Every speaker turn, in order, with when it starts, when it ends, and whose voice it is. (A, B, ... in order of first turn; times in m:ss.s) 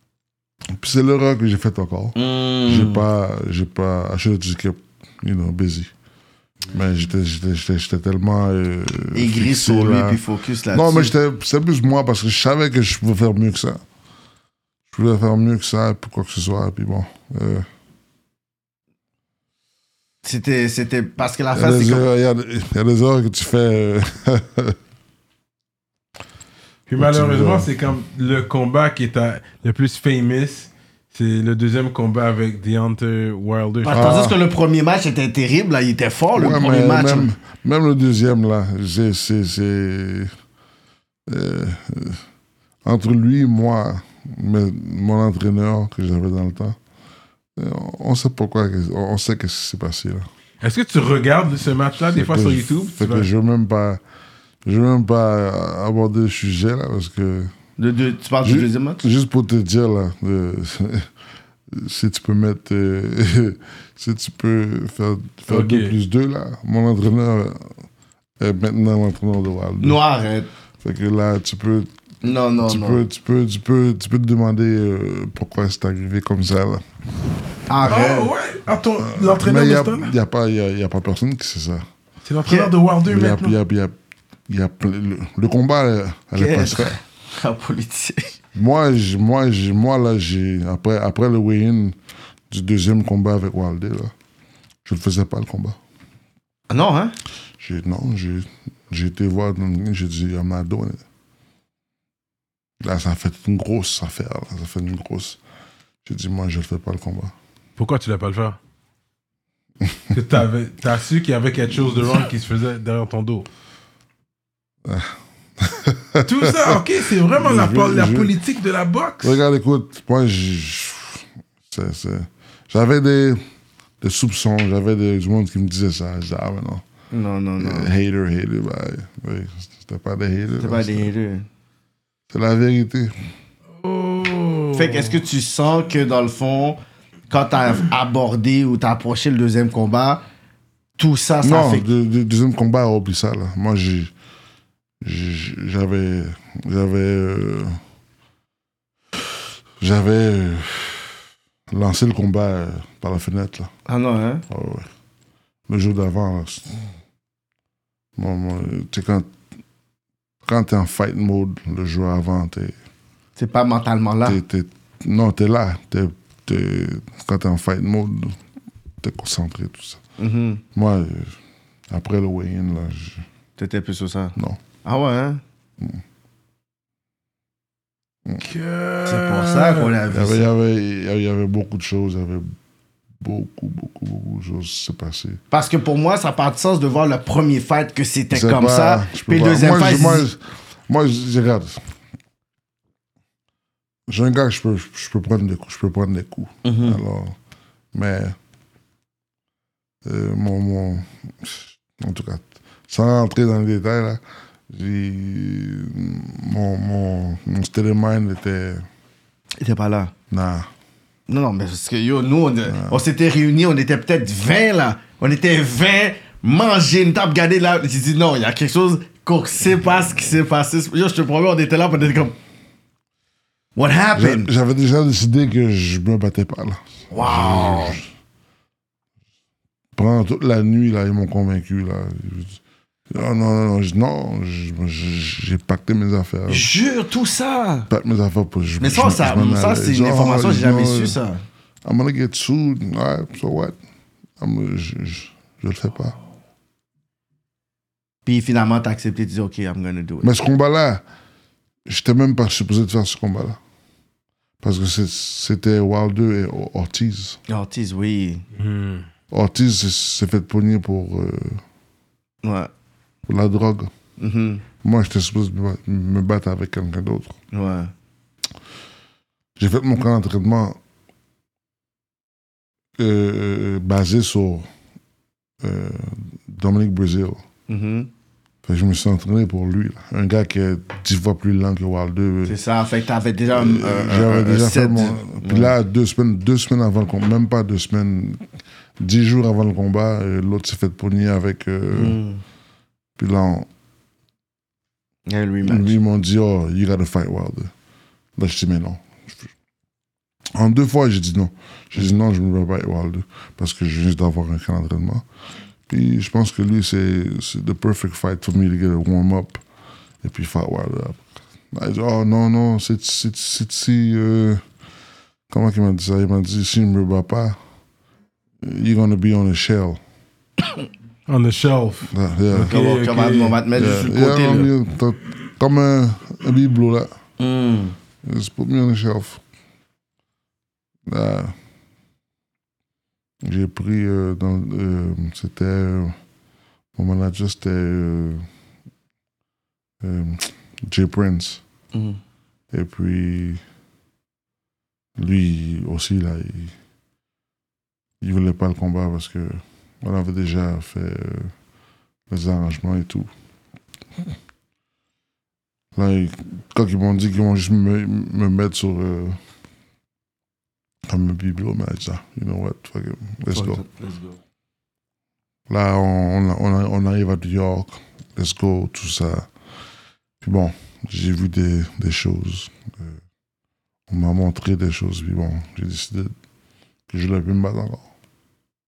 0:00.7-0:05.9 A
0:02.2-0:03.0 B
0:06.7-0:10.2 A
0:09.1-0:11.1 B
0:10.7-0:13.8 A
0:14.9-0:17.6 A
0:20.2-0:22.0 B
0:21.5-0:24.8 A
0:26.9-0:34.2 C
0:27.0-0:27.7 A
0:33.8-0:37.3 B
0:33.9-0:34.4 A
0:36.3-0:40.3 A
0:41.3-0:42.2 A
0:42.8-0:46.8 A
0:47.6-0:50.3 A
0:50.6-0:53.3 C
0:52.1-0:54.0 A
0:54.6-0:57.5 A
0:57.8-0:59.0 B
0:58.4-1:01.1 A
1:01.7-1:07.7 A
1:05.5-1:06.0 C
1:08.4-1:10.0 A
1:09.8-1:10.5 B
1:10.8-1:11.9 A
1:12.2-1:13.0 B
1:12.6-1:16.8 A
1:17.7-1:18.3 B
1:17.8-1:20.1 C
1:19.0-1:21.8 A
1:22.2-1:23.6 C
1:22.5-1:22.7 B
1:23.0-1:23.9 A
1:24.5-1:27.0 A
1:26.3-1:28.4 B
1:28.5-1:32.0 A
1:32.5-1:34.1 A
1:34.8-1:35.8 A
1:36.7-1:37.2 B
1:37.6-1:41.0 A
1:42.8-1:45.4 A
1:46.0-1:47.3 A
1:47.8-1:48.6 C
1:50.1-1:53.5 C
1:54.8-1:58.3 A
1:56.2-1:59.4 C
1:59.2-2:03.4 A
2:04.0-2:06.8 A
2:07.1-2:07.9 B
2:07.6-2:11.1 A
2:10.6-2:11.4 B
2:12.3-2:13.1 A
2:13.8-2:15.2 C
2:14.7-2:20.2 B
2:21.0-2:21.8 B
2:21.4-2:24.1 A
2:25.0-2:27.8 A
2:29.3-2:31.2 A
2:31.7-2:33.7 A
2:33.9-2:34.4 B
2:34.5-2:34.9 A
2:35.7-2:36.9 A
2:38.2-2:39.3 A
2:40.4-2:42.8 A
2:43.4-2:44.4 B
2:44.2-2:48.4 A
2:49.0-2:50.0 A
2:50.2-2:50.6 B
2:50.7-2:51.4 A
2:51.9-2:53.2 A
2:53.6-2:55.4 B
2:54.4-2:54.6 A
2:58.4-3:00.0 C
2:59.0-3:00.5 B
3:00.1-3:02.5 A
3:03.2-3:05.4 A
3:05.5-3:10.2 B
3:08.3-3:11.8 A
3:14.1-3:17.4 A
3:16.6-3:17.0 B
3:17.9-3:18.4 A
3:20.0-3:28.8 A
3:29.6-3:30.1 B
3:30.3-3:30.7 A
3:31.3-3:42.3 B
3:32.7-3:33.0 A
3:43.8-3:44.5 B
3:44.1-3:48.1 A
3:47.1-3:48.0 B
3:50.0-3:56.7 A
3:56.5-3:57.9 B
3:57.9-4:01.2 A
3:58.8-4:01.4 B
4:01.8-4:03.8 A
4:04.4-4:06.2 A
4:08.2-4:10.3 B
4:10.2-4:11.0 A
4:11.9-4:13.6 A
4:14.6-4:17.4 A
4:17.5-4:18.4 B
4:18.6-4:19.0 C
4:19.3-4:21.6 A
4:22.4-4:22.7 B
4:23.3-4:23.9 A
4:24.2-4:24.6 B
4:24.8-4:27.4 A
4:27.5-4:27.9 B
4:29.6-4:30.8 A
4:33.0-4:34.7 A
4:35.6-4:37.4 A
4:37.7-4:38.1 B
4:38.6-4:42.6 A
4:42.4-4:45.7 B
4:43.5-4:48.5 A
4:49.0-4:52.2 A
4:51.9-4:52.4 B
4:53.2-4:53.7 A
4:55.3-4:56.0 B
4:55.6-4:57.7 A
4:58.4-4:59.5 A
5:00.5-5:05.2 A
5:05.9-5:09.6 A
5:10.2-5:14.6 A
5:15.5-5:17.6 A
5:18.6-5:20.0 A
5:21.3-5:23.6 C
5:22.1-5:22.7 A
5:22.6-5:24.7 B
5:23.7-5:27.1 A
5:27.4-5:28.0 B
5:28.2-5:29.4 A
5:31.1-5:31.5 A
5:33.4-5:36.2 A
5:37.0-5:38.4 A
5:40.0-5:41.6 A
5:41.9-5:42.2 B
5:42.7-5:43.6 A
5:45.2-5:46.7 A
5:48.2-5:51.5 A
5:52.3-5:53.3 A
5:55.9-5:59.4 A
6:01.1-6:03.8 A
6:03.5-6:04.4 B
6:05.7-6:09.5 A
6:10.4-6:13.2 A
6:14.1-6:16.3 A
6:17.1-6:18.1 A